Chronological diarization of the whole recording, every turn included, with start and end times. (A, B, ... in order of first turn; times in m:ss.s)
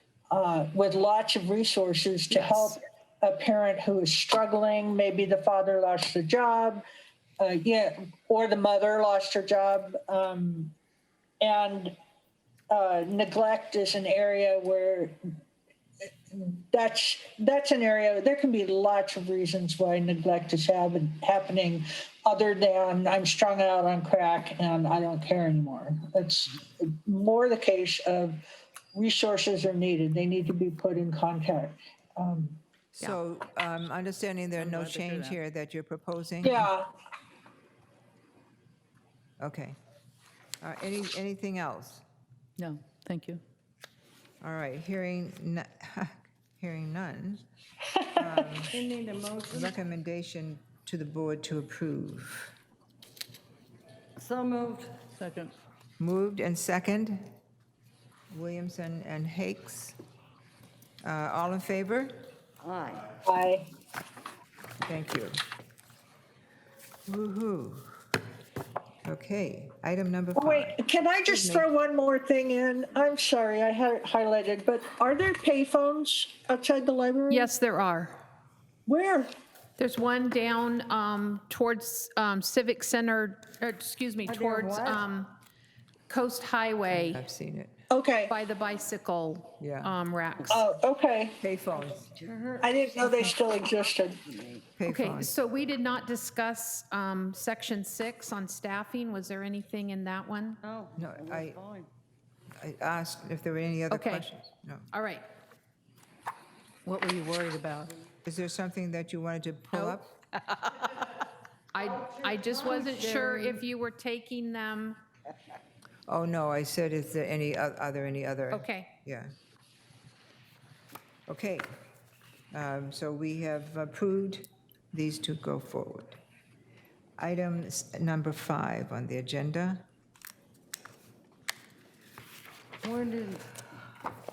0:00.3-0:06.8 A
0:02.3-0:02.8 B
0:07.4-0:10.7 A
0:11.4-0:12.0 A
0:12.7-0:15.2 A
0:16.3-0:28.4 A
0:28.9-0:32.6 A
0:33.0-0:36.7 C
0:34.6-0:35.4 D
0:36.4-0:36.9 A
0:39.4-0:39.8 C
0:40.6-0:42.0 C
0:42.6-0:43.4 D
0:44.4-0:47.4 C
0:47.9-0:48.5 A
0:48.2-0:48.8 C
0:48.7-0:49.8 E
0:49.5-0:52.5 C
0:54.2-0:55.0 E
0:55.2-0:55.5 D
0:56.0-0:57.3 C
0:58.3-1:00.0 C
1:01.0-1:02.3 C
1:02.6-1:03.1 E
1:03.2-1:03.6 A
1:04.8-1:05.4 C
1:07.1-1:07.9 C
1:09.0-1:10.8 C
1:10.4-1:17.5 A
1:11.3-1:11.7 C
1:17.3-1:18.2 B
1:18.9-1:19.3 A
1:19.8-1:25.4 B
1:24.2-1:25.1 E
1:26.1-1:27.2 B
1:26.9-1:27.8 C
1:27.9-1:28.4 A
1:28.3-1:30.7 B
1:29.6-1:29.9 C
1:30.5-1:31.4 A
1:31.4-1:32.1 C
1:31.8-1:33.6 E
1:32.6-1:34.2 A
1:34.2-1:34.7 E
1:34.8-1:35.3 C
1:34.8-1:40.6 B
1:40.6-1:41.9 E
1:41.0-1:41.6 C
1:42.6-1:44.9 C
1:43.9-1:44.3 B
1:44.9-1:45.3 B
1:46.9-1:47.9 D
1:48.2-1:50.1 C
1:51.7-1:55.0 B
1:52.0-1:53.6 E
1:56.1-1:59.3 C
1:58.5-1:58.9 B
2:01.3-2:01.7 C
2:02.5-2:06.2 C
2:07.2-2:09.8 C
2:12.8-2:13.6 E